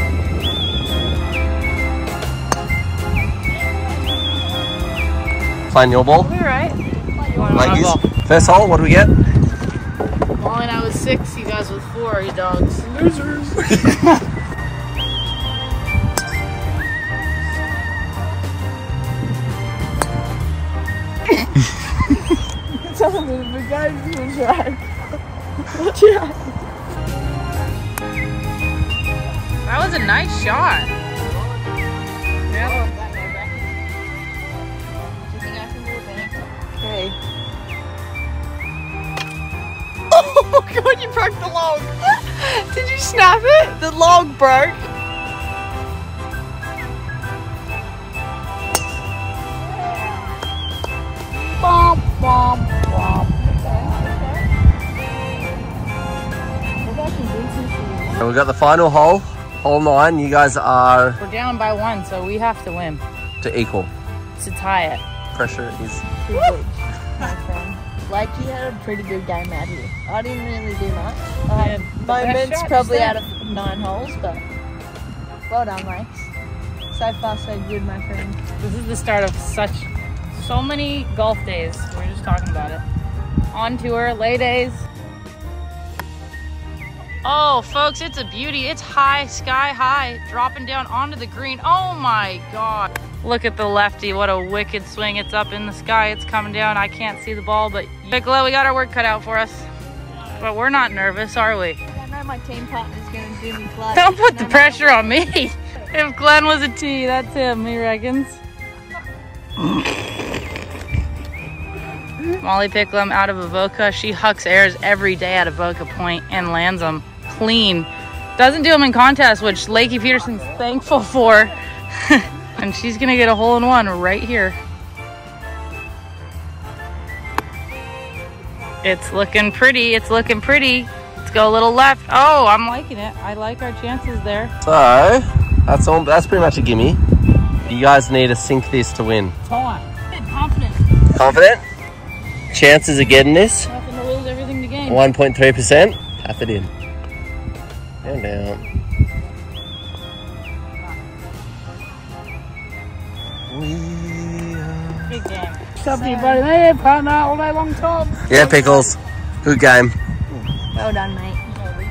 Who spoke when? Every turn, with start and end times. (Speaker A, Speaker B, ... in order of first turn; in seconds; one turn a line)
Speaker A: 5.7-6.3
Speaker B: 6.2-8.0
Speaker C: 7.2-7.9
Speaker A: 7.5-9.1
Speaker B: 10.3-12.9
Speaker D: 12.9-13.8
Speaker C: 22.7-24.9
Speaker C: 25.7-26.5
Speaker B: 29.6-30.9
Speaker B: 32.5-32.8
Speaker C: 32.5-33.8
Speaker C: 35.3-37.1
Speaker C: 40.1-44.9
Speaker B: 51.6-53.3
Speaker C: 53.4-54.5
Speaker C: 56.8-58.3
Speaker A: 58.1-61.2
Speaker B: 61.2-63.0
Speaker A: 63.4-63.9
Speaker B: 64.4-65.0
Speaker A: 65.3-66.0
Speaker C: 66.2-74.4
Speaker B: 71.5-73.2
Speaker C: 75.5-76.3
Speaker C: 76.9-78.4
Speaker B: 78.6-82.8
Speaker B: 83.5-84.8
Speaker B: 87.2-99.7
Speaker B: 100.3-101.8
Speaker C: 101.9-105.2
Speaker B: 103.9-108.4
Speaker B: 109.6-109.9
Speaker B: 112.4-124.6
Speaker B: 128.8-134.5
Speaker A: 134.6-137.0
Speaker A: 137.6-139.3
Speaker D: 139.4-139.8
Speaker B: 139.9-140.8
Speaker A: 141.1-141.6
Speaker A: 142.5-143.7
Speaker B: 143.6-145.1
Speaker A: 144.8-146.7
Speaker A: 148.0-148.6
Speaker A: 153.5-155.1
Speaker B: 155.1-155.7
Speaker D: 155.7-158.7
Speaker C: 155.8-156.4
Speaker A: 158.2-159.9
Speaker C: 160.7-161.4